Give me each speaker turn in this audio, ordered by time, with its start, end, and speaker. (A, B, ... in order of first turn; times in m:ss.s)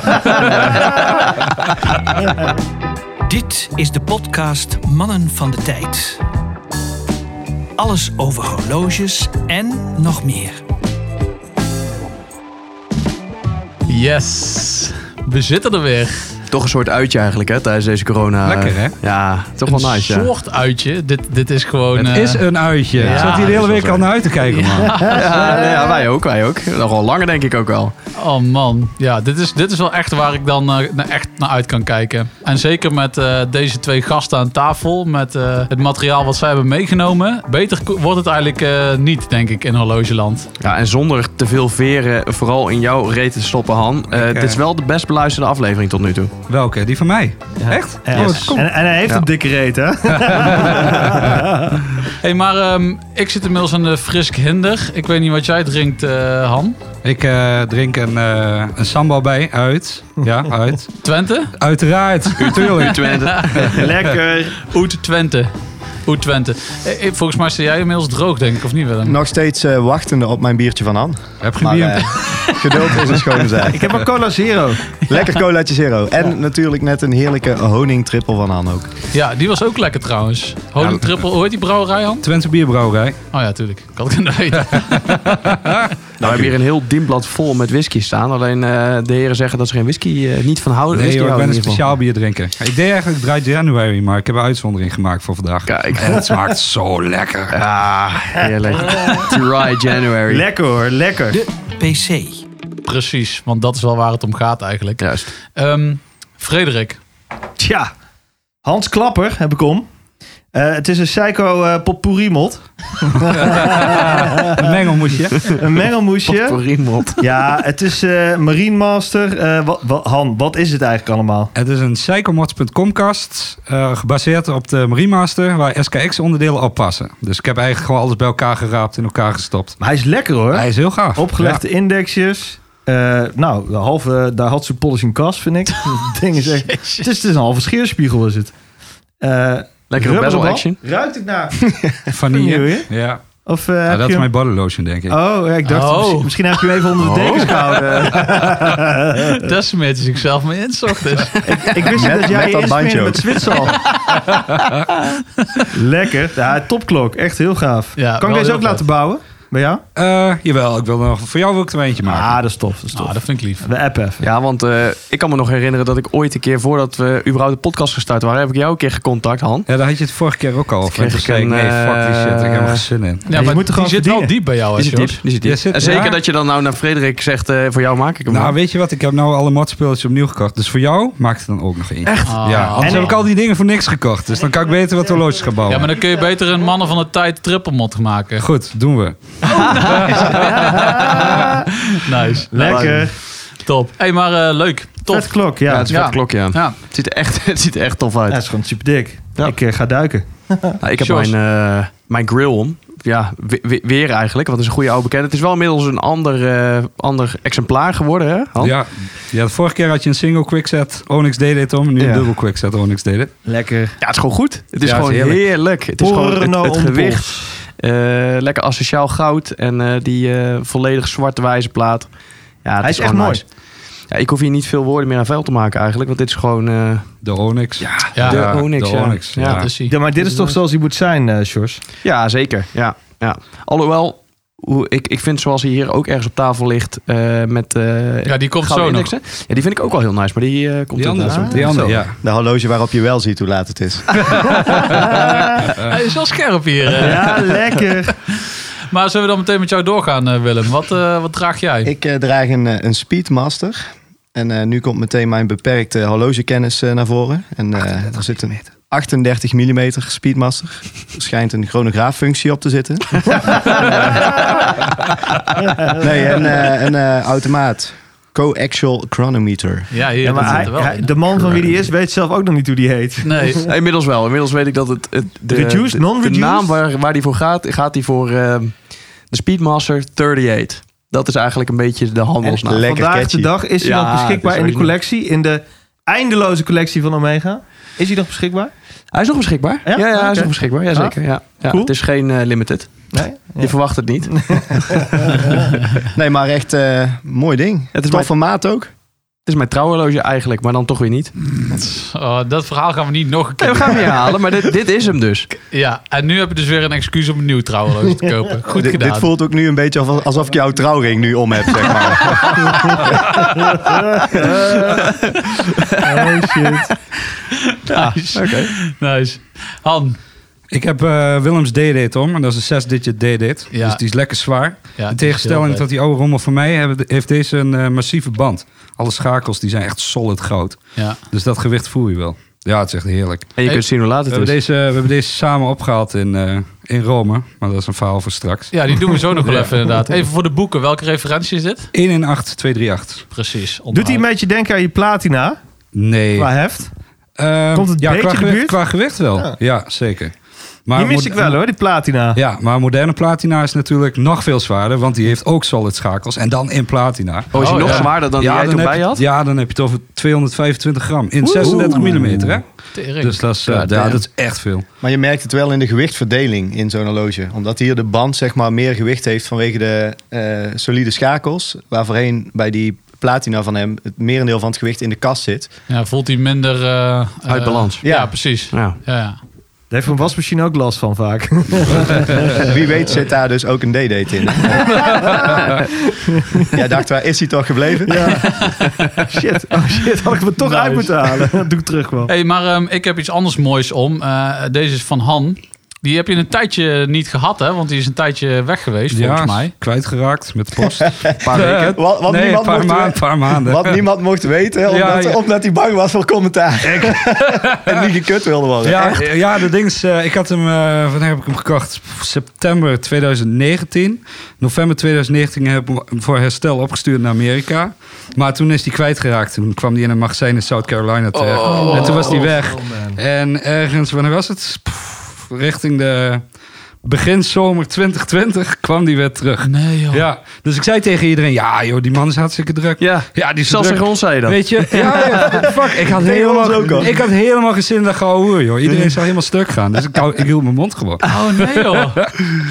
0:00.3-0:01.0 A
0:03.2-0:06.2 B
0:07.8-0:10.6 B
0:13.9-0:16.4 C
0:16.5-0:20.3 A
0:18.4-0:19.0 D
0:19.6-0:22.4 C
0:22.0-0:25.2 D
0:23.0-0:24.1 A
0:23.0-0:23.6 C
0:24.4-0:25.2 C
0:25.0-0:27.9 A
0:28.2-0:40.5 C
0:40.6-0:46.3 A
0:44.1-0:44.6 D
0:46.5-0:48.7 D
0:47.6-0:51.8 E
0:48.1-0:49.3 A
0:50.2-0:51.4 D
0:52.2-0:56.8 C
0:57.0-1:00.9 D
1:01.0-1:01.5 C
1:01.5-1:03.6 D
1:02.4-1:03.9 A
1:02.4-1:03.6 C
1:03.7-1:04.7 E
1:04.6-1:05.5 C
1:06.0-1:09.2 C
1:09.0-1:13.8 F
1:11.4-1:12.1 D
1:13.7-1:15.0 E
1:15.1-1:18.9 F
1:19.1-1:22.2 C
1:20.8-1:21.1 D
1:22.2-1:23.2 D
1:23.3-1:25.3 C
1:24.7-1:25.9 D
1:26.2-1:26.5 F
1:26.2-1:31.8 A
1:30.9-1:37.6 D
1:35.7-1:36.3 A
1:37.5-1:40.4 A
1:38.8-1:39.3 E
1:40.3-1:41.4 E
1:41.3-1:42.4 B
1:42.8-1:47.0 C
1:45.0-1:45.3 A
1:47.6-1:47.9 E
1:48.6-1:49.9 E
1:50.5-1:54.6 E
1:53.4-1:55.5 D
1:55.5-1:56.6 E
1:56.2-1:57.6 A
1:57.2-2:01.5 E
2:01.5-2:09.8 D
2:09.8-2:18.5 E
2:10.5-2:11.6 D
2:16.6-2:17.0 C
2:19.2-2:22.9 E
2:19.9-2:20.8 A
2:22.1-2:23.2 D
2:23.4-2:24.3 E
2:23.8-2:25.2 D
2:25.1-2:29.5 E
2:25.6-2:26.6 C
2:27.0-2:28.0 A
2:29.2-2:31.4 C
2:31.4-2:34.0 E
2:31.9-2:33.4 F
2:33.9-2:34.2 C
2:34.5-2:34.9 D
2:35.7-2:39.8 E
2:38.0-2:38.8 C
2:39.9-2:42.4 D
2:42.0-2:44.2 E
2:42.9-2:43.6 C
2:44.2-2:49.7 A
2:49.7-2:53.3 D
2:50.8-2:52.8 A
2:53.3-2:55.2 C
2:53.3-2:54.3 E
2:54.8-2:58.5 A
2:55.4-2:56.2 D
2:58.3-3:05.9 D
3:02.0-3:02.7 A
3:02.2-3:03.2 C
3:02.8-3:03.1 E
3:05.7-3:08.5 C
3:08.4-3:11.4 D
3:09.4-3:13.0 C
3:10.8-3:11.5 E
3:12.5-3:13.2 E
3:12.5-3:13.1 A
3:13.5-3:16.8 C
3:15.1-3:15.9 E
3:15.6-3:18.6 A
3:18.3-3:20.8 E
3:20.8-3:28.8 A
3:21.0-3:21.4 C
3:28.6-3:33.3 D
3:32.0-3:32.3 A
3:33.4-3:34.0 E
3:34.0-3:47.2 A
3:34.8-3:35.4 D
3:34.8-3:35.2 F
3:36.0-3:37.5 E
3:42.8-3:43.4 E
3:47.2-3:49.7 D
3:47.8-3:50.6 A
3:48.1-3:48.6 C
3:49.4-3:50.0 C
3:49.8-3:51.8 E
3:52.0-4:02.0 A
3:58.2-3:59.1 C
4:01.0-4:02.2 D
4:01.2-4:01.8 E
4:02.2-4:04.3 F
4:05.0-4:05.7 E
4:05.7-4:07.4 C
4:06.9-4:08.1 E
4:08.9-4:11.9 C
4:11.8-4:23.6 F
4:18.0-4:18.4 D
4:23.4-4:24.6 E
4:23.9-4:24.3 A
4:25.9-4:29.9 F
4:29.9-4:31.2 C
4:30.2-4:33.7 E
4:33.2-4:33.6 C
4:33.6-4:42.8 A
4:35.5-4:36.8 E
4:42.4-4:43.5 F
4:42.8-4:48.7 E
4:43.8-4:44.9 A
4:49.1-4:55.0 A
4:49.8-4:51.9 E
4:53.1-4:55.6 E
4:56.1-4:58.9 F
4:57.9-4:58.3 A
4:59.4-5:01.3 A
5:01.6-5:04.4 C
5:03.6-5:05.5 A
5:05.7-5:09.3 C
5:08.7-5:13.2 F
5:13.6-5:15.0 E
5:16.0-5:16.9 E
5:17.5-5:20.2 C
5:18.3-5:18.7 A
5:20.7-5:30.8 D
5:23.7-5:24.0 C
5:25.0-5:25.9 C
5:31.3-5:33.5 D
5:33.6-5:34.6 A
5:33.6-5:33.9 C
5:34.3-5:38.7 D
5:38.7-5:41.9 C
5:39.4-5:39.8 D
5:41.9-5:43.2 D
5:43.3-5:44.2 C
5:43.9-5:45.6 E
5:45.9-5:46.5 D
5:46.4-5:46.9 E
5:47.4-5:50.3 D
5:47.7-5:48.8 E
5:50.9-5:51.6 D
5:51.0-5:52.4 E
5:52.3-6:02.6 D
5:57.5-5:59.2 A
5:57.5-5:58.1 C
6:01.4-6:02.6 A
6:02.9-6:03.4 C
6:03.2-6:04.8 D
6:03.6-6:04.2 A
6:05.0-6:15.7 F
6:15.9-6:19.4 C
6:17.5-6:18.0 A
6:18.0-6:18.4 F
6:18.7-6:19.0 A
6:19.9-6:22.7 E
6:22.6-6:25.3 F
6:24.6-6:26.8 E
6:26.7-6:28.2 F
6:28.0-6:28.6 E
6:29.3-6:32.3 E
6:32.3-6:39.7 C
6:39.1-6:44.0 D
6:40.8-6:49.3 F
6:41.4-6:42.0 A
6:44.8-6:45.4 D
6:46.9-6:48.1 D
6:48.8-7:06.4 D
7:01.3-7:02.4 A
7:01.6-7:02.3 C
7:01.9-7:03.2 E
7:07.0-7:22.4 D
7:09.6-7:10.2 C
7:13.0-7:15.7 A
7:16.1-7:17.1 F
7:21.2-7:22.2 C